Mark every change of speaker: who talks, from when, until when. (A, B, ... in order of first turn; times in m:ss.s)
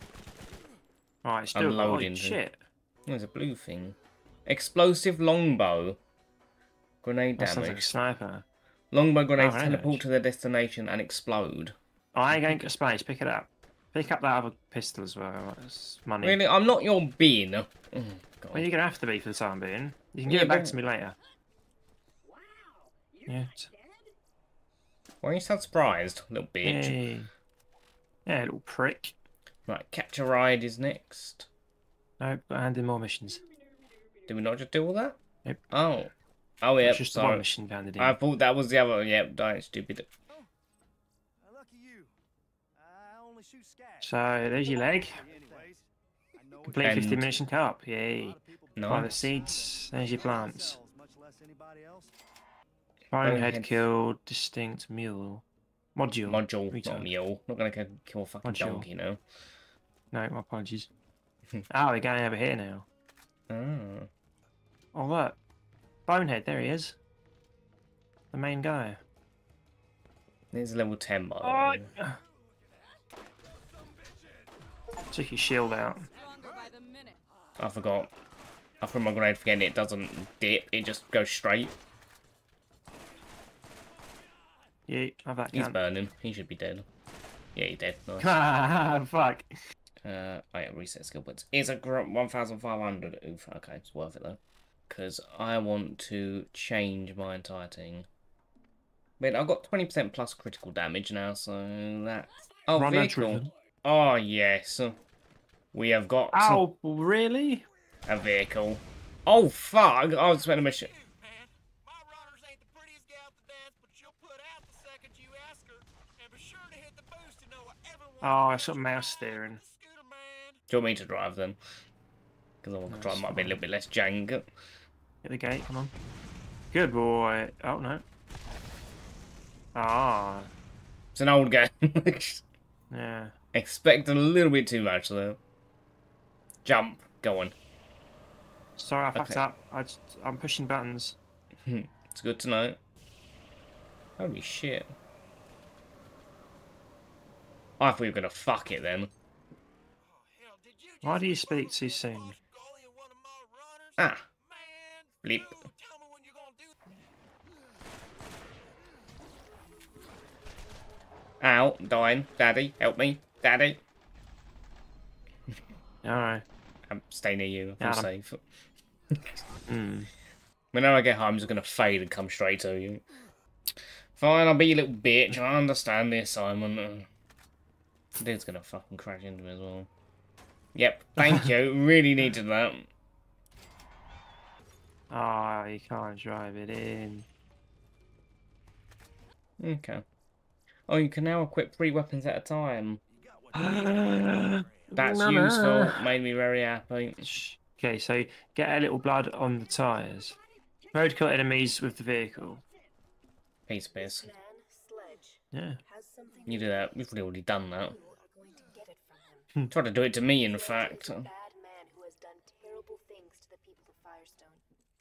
0:01.2-0:02.6 A
0:01.5-0:02.4 B
0:03.0-0:06.0 B
0:07.0-0:07.9 B
0:07.4-0:08.4 A
0:08.9-0:11.8 B
0:09.4-0:10.0 A
0:12.1-0:16.4 A
0:12.3-0:12.7 B
0:16.2-0:18.7 B
0:18.5-0:21.2 A
0:20.3-0:20.8 B
0:23.2-0:23.7 A
0:25.2-0:26.9 B
0:26.6-0:27.3 A
0:28.2-0:29.1 A
0:29.7-0:31.5 B
0:32.2-0:33.4 A
0:34.3-0:35.2 B
0:35.7-0:37.4 B
0:36.8-0:38.2 A
0:38.0-0:40.1 B
0:44.0-0:45.2 A
0:46.6-0:50.8 A
0:46.8-0:47.3 B
0:48.8-0:49.2 B
0:53.1-0:57.1 A
0:53.2-0:53.9 B
0:56.3-0:59.2 B
0:58.4-0:58.9 A
1:00.1-1:00.9 A
1:01.7-1:02.9 A
1:03.5-1:04.1 B
1:04.9-1:05.4 A
1:06.1-1:07.0 A
1:08.3-1:09.0 A
1:10.5-1:11.9 B
1:11.4-1:12.2 A
1:15.1-1:16.1 A
1:16.2-1:17.2 C
1:17.6-1:18.1 B
1:18.8-1:21.8 B
1:24.9-1:25.8 A
1:25.5-1:26.8 B
1:27.5-1:28.4 B
1:28.2-1:29.5 A
1:30.0-1:38.1 B
1:39.2-1:45.0 B
1:42.7-1:43.5 A
1:45.7-1:46.6 B
1:46.3-1:47.6 A
1:48.1-1:50.9 B
1:50.8-1:58.2 C
1:58.2-1:59.6 A
1:59.6-2:00.6 C
2:00.7-2:01.6 B
2:02.6-2:04.5 B
2:02.9-2:03.6 A
2:05.2-2:05.9 A
2:06.7-2:08.0 A
2:09.7-2:10.5 A
2:11.1-2:12.4 B
2:12.9-2:13.3 A
2:13.5-2:15.4 B
2:16.6-2:17.5 B
2:18.8-2:21.2 A
2:19.1-2:19.4 B
2:21.6-2:22.8 B
2:24.2-2:24.9 B
2:27.8-2:29.1 B
2:30.1-2:31.1 C
2:31.0-2:32.4 A
2:32.4-2:34.0 C
2:34.0-2:34.3 B
2:34.5-2:36.7 C
2:35.2-2:35.6 B
2:41.4-2:43.8 B
2:46.0-2:46.4 A
2:46.9-2:48.4 B
2:47.8-2:48.1 A
2:49.1-2:49.4 B
2:49.7-2:50.1 A
2:50.7-2:53.0 B
2:54.2-2:57.1 B
2:58.2-2:59.9 B
3:00.7-3:02.9 B
3:05.1-3:07.3 A
3:09.6-3:10.0 B
3:10.9-3:13.0 B
3:13.5-3:16.0 A
3:14.9-3:17.3 B
3:17.2-3:20.4 A
3:20.9-3:22.6 A
3:23.7-3:24.3 B
3:24.3-3:26.5 D
3:25.5-3:25.8 A
3:26.4-3:28.0 B
3:28.0-3:29.5 D
3:29.7-3:31.3 B
3:30.8-3:34.6 D